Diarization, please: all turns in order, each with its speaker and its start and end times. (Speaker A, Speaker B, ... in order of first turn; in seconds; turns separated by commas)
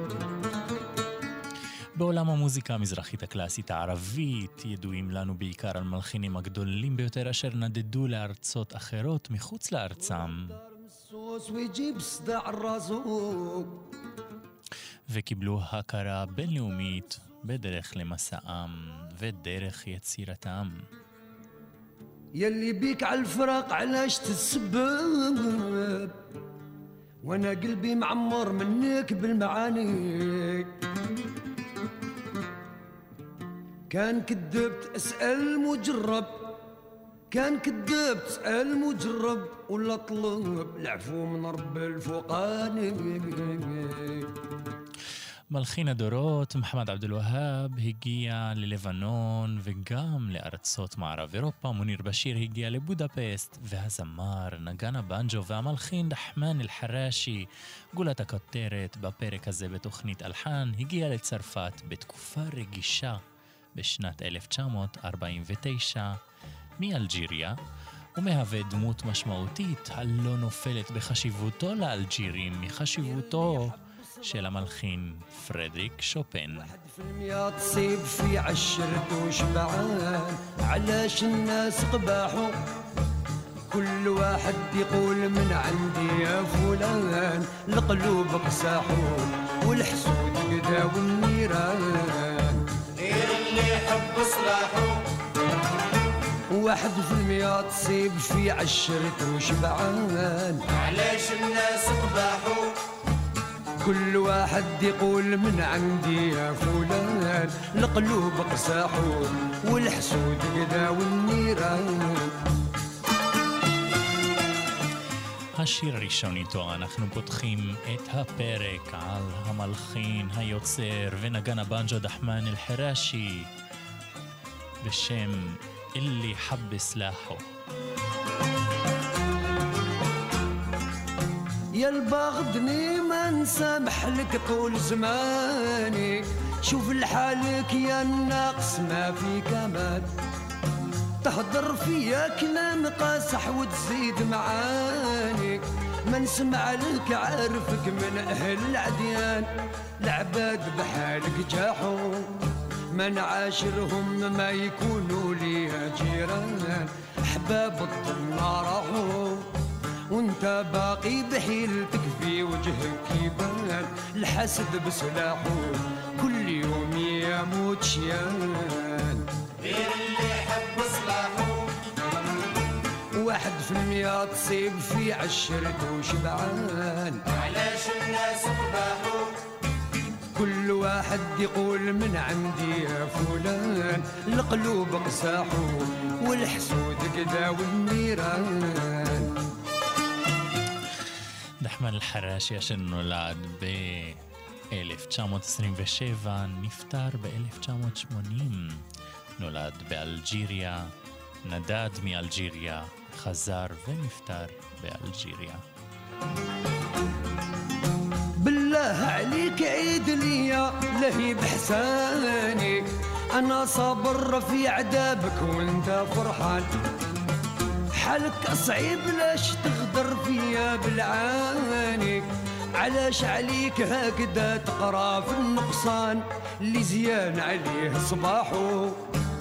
Speaker A: 2.0-10.6, Speaker B: 10.1-13.8, Speaker A: 15.1-20.9, Speaker B: 22.4-26.2, Speaker B: 27.2-30.8, Speaker B: 33.9-36.5, Speaker B: 37.3-44.3, Speaker A: 45.5-63.2, Speaker A: 63.8-66.2, Speaker A: 66.8-67.6, Speaker A: 68.2-76.7, Speaker B: 72.9-74.5, Speaker B: 76.5-82.5, Speaker B: 83.7-92.6, Speaker C: 93.0-95.1, Speaker B: 96.5-100.6, Speaker C: 100.7-102.8, Speaker B: 103.8-112.4, Speaker A: 115.6-123.5, Speaker A: 124.8-127.5, Speaker B: 131.7-140.1, Speaker B: 141.2-149.5, Speaker B: 150.0-152.3, Speaker B: 152.9-159.5, Speaker B: 160.1-169.3, Speaker C: 169.6-171.7, Speaker B: 173.2-177.2, Speaker C: 177.3-179.4, Speaker B: 180.3-189.4, Speaker A: 191.6-198.9, Speaker A: 199.4-205.6, Speaker B: 208.4-216.7, Speaker B: 217.9-222.3, Speaker B: 222.8-229.0